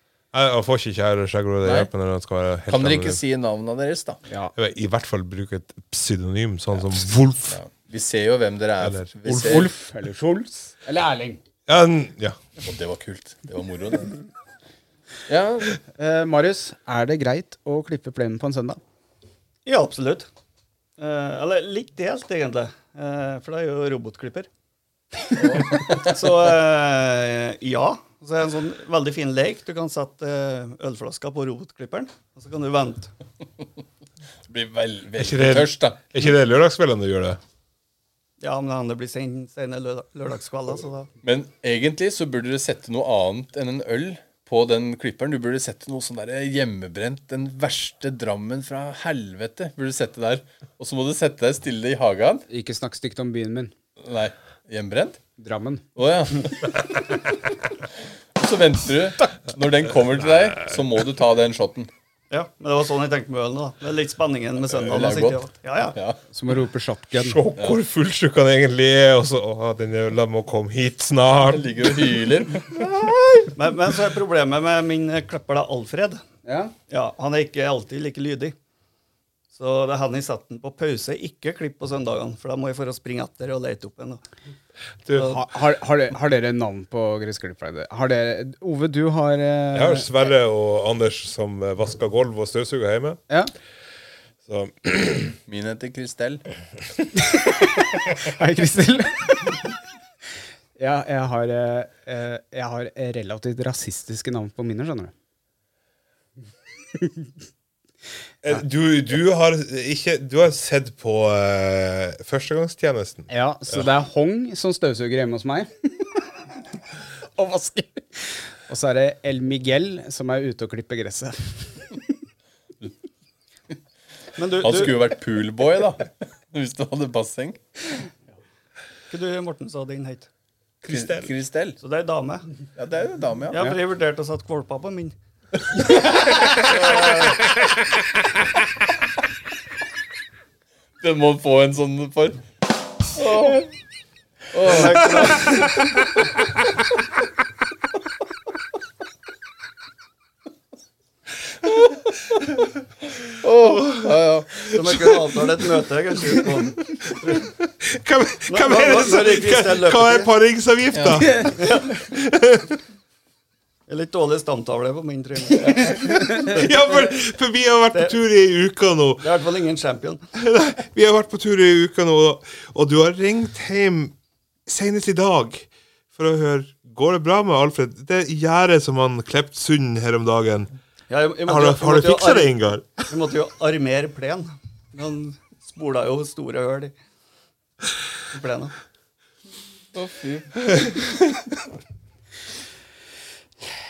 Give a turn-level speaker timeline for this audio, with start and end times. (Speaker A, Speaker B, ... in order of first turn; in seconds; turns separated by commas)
Speaker A: 0.3-3.2, Speaker B: 1.6-1.9, Speaker B: 2.7-4.2, Speaker C: 4.3-4.5, Speaker A: 4.5-7.6, Speaker B: 7.5-9.7, Speaker A: 8.8-9.7, Speaker C: 9.3-11.4, Speaker A: 11.7-12.4, Speaker B: 12.6-14.2, Speaker B: 15.3-15.8, Speaker C: 16.0-18.8, Speaker D: 19.6-20.3, Speaker D: 21.0-24.5, Speaker B: 25.3-26.2, Speaker D: 25.8-33.1, Speaker B: 34.5-36.0, Speaker A: 35.2-37.4, Speaker D: 38.4-41.1, Speaker B: 41.2-52.5, Speaker C: 52.5-53.7, Speaker B: 54.0-55.2, Speaker C: 55.4-55.8, Speaker B: 56.0-57.3, Speaker B: 58.4-61.9, Speaker D: 62.3-66.0, Speaker B: 64.7-66.2, Speaker C: 66.3-67.4, Speaker A: 67.2-71.9, Speaker B: 71.5-73.5, Speaker D: 73.5-76.2, Speaker C: 76.5-76.7, Speaker D: 76.9-78.5, Speaker D: 79.5-84.2, Speaker A: 85.1-85.3, Speaker C: 85.2-90.1, Speaker A: 89.7-93.2, Speaker A: 94.5-95.4, Speaker B: 95.5-96.4, Speaker C: 97.3-99.6, Speaker C: 100.8-105.1, Speaker A: 108.4-113.8, Speaker C: 113.3-116.1, Speaker C: 117.3-122.0, Speaker D: 124.4-125.0, Speaker B: 124.6-127.6, Speaker D: 129.1-130.3, Speaker A: 130.9-131.2, Speaker B: 130.9-131.8, Speaker D: 131.8-132.5, Speaker B: 132.8-133.7, Speaker D: 133.5-135.1, Speaker D: 136.5-137.4, Speaker B: 141.0-142.4, Speaker B: 143.2-143.7, Speaker B: 144.5-145.5, Speaker D: 144.6-145.7, Speaker B: 151.6-152.1, Speaker B: 153.4-154.7, Speaker A: 153.7-154.1, Speaker A: 154.7-155.1, Speaker D: 154.7-156.8, Speaker A: 157.3-162.8, Speaker D: 158.5-160.3, Speaker B: 160.9-161.3, Speaker D: 161.5-162.0, Speaker D: 163.9-166.5, Speaker A: 165.9-169.3, Speaker D: 169.2-170.2, Speaker A: 170.4-174.1, Speaker A: 174.7-180.7, Speaker D: 181.1-186.9, Speaker A: 181.4-183.1, Speaker D: 188.3-188.7, Speaker B: 189.9-190.5, Speaker A: 190.8-191.1